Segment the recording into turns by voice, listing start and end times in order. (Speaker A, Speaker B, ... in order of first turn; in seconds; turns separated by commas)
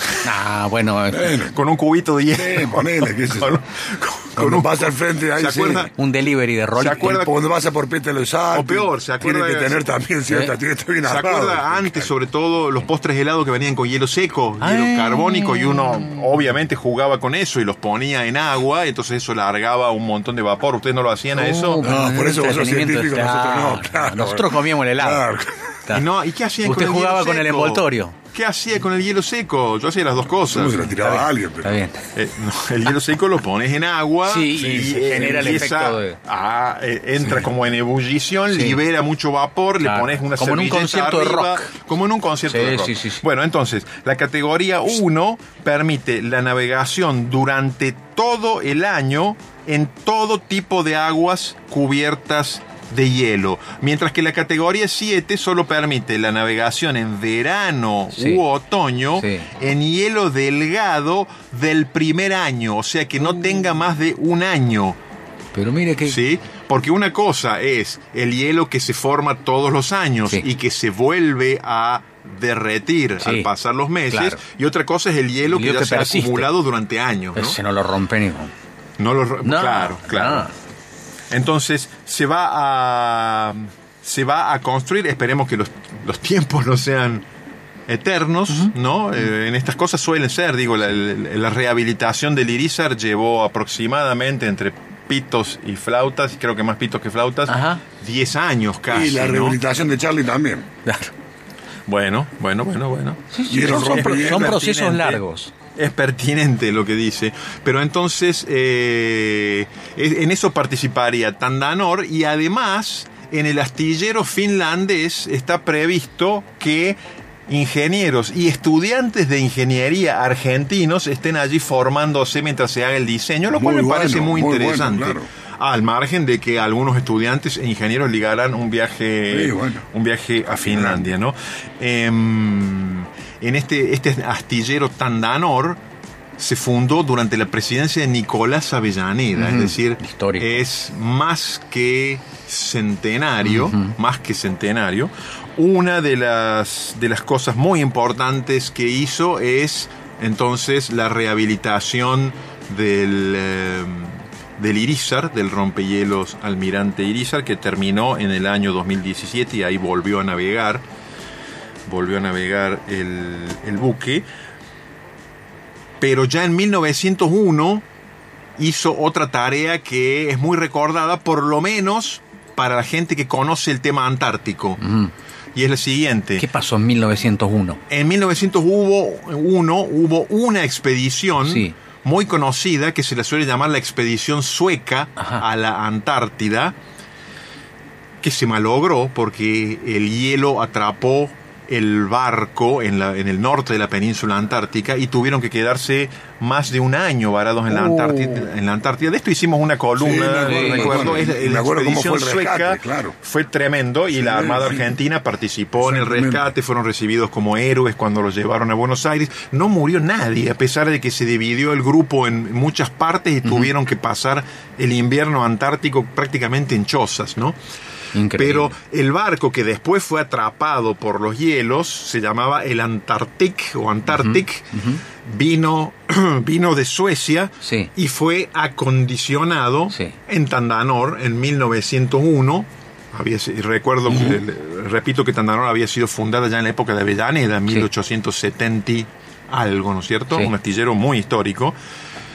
Speaker A: 0.2-1.5, Speaker B: 1.1-1.6, Speaker C: 1.5-5.9, Speaker B: 2.3-3.6, Speaker B: 4.4-5.9, Speaker A: 6.0-7.2, Speaker C: 6.8-7.4, Speaker B: 6.8-12.1, Speaker C: 8.5-9.8, Speaker A: 10.3-10.6, Speaker C: 11.0-21.8, Speaker A: 14.6-16.3, Speaker A: 21.3-25.3, Speaker B: 21.8-25.8, Speaker C: 25.9-30.8, Speaker A: 26.6-28.2, Speaker B: 30.5-31.8, Speaker A: 30.9-32.0, Speaker C: 32.1-65.0, Speaker A: 34.2-36.2, Speaker B: 34.5-35.7, Speaker A: 38.5-38.8, Speaker A: 39.8-41.8, Speaker A: 42.5-43.2, Speaker A: 58.1-58.4, Speaker A: 59.2-59.5, Speaker A: 63.3-63.6, Speaker A: 65.5-66.2, Speaker C: 66.0-77.6, Speaker A: 73.2-73.5, Speaker A: 74.1-74.4, Speaker A: 75.5-76.5, Speaker A: 77.3-78.5, Speaker C: 79.0-80.5, Speaker A: 79.4-80.5, Speaker C: 81.3-87.2, Speaker C: 87.9-99.6, Speaker A: 97.5-97.8, Speaker B: 98.9-100.7, Speaker A: 100.9-101.1, Speaker C: 101.9-105.2, Speaker A: 103.3-105.5, Speaker B: 103.5-104.6, Speaker C: 105.8-135.8, Speaker B: 123.5-125.3, Speaker B: 129.3-129.8, Speaker B: 130.5-131.1, Speaker C: 136.4-160.8, Speaker A: 139.3-140.7, Speaker A: 143.4-143.9, Speaker C: 161.9-164.2, Speaker C: 166.0-167.8, Speaker C: 168.6-174.8, Speaker A: 174.8-175.1, Speaker C: 175.6-176.4, Speaker A: 176.4-177.8, Speaker C: 177.9-186.8, Speaker A: 181.4-181.8, Speaker C: 188.2-217.6, Speaker A: 197.7-198.4, Speaker B: 200.0-203.2, Speaker A: 200.4-201.2, Speaker B: 204.1-204.9, Speaker B: 205.8-206.5, Speaker A: 213.4-213.7, Speaker A: 218.1-218.8, Speaker C: 218.4-241.8, Speaker A: 224.1-225.0, Speaker A: 227.6-227.9, Speaker A: 234.1-234.4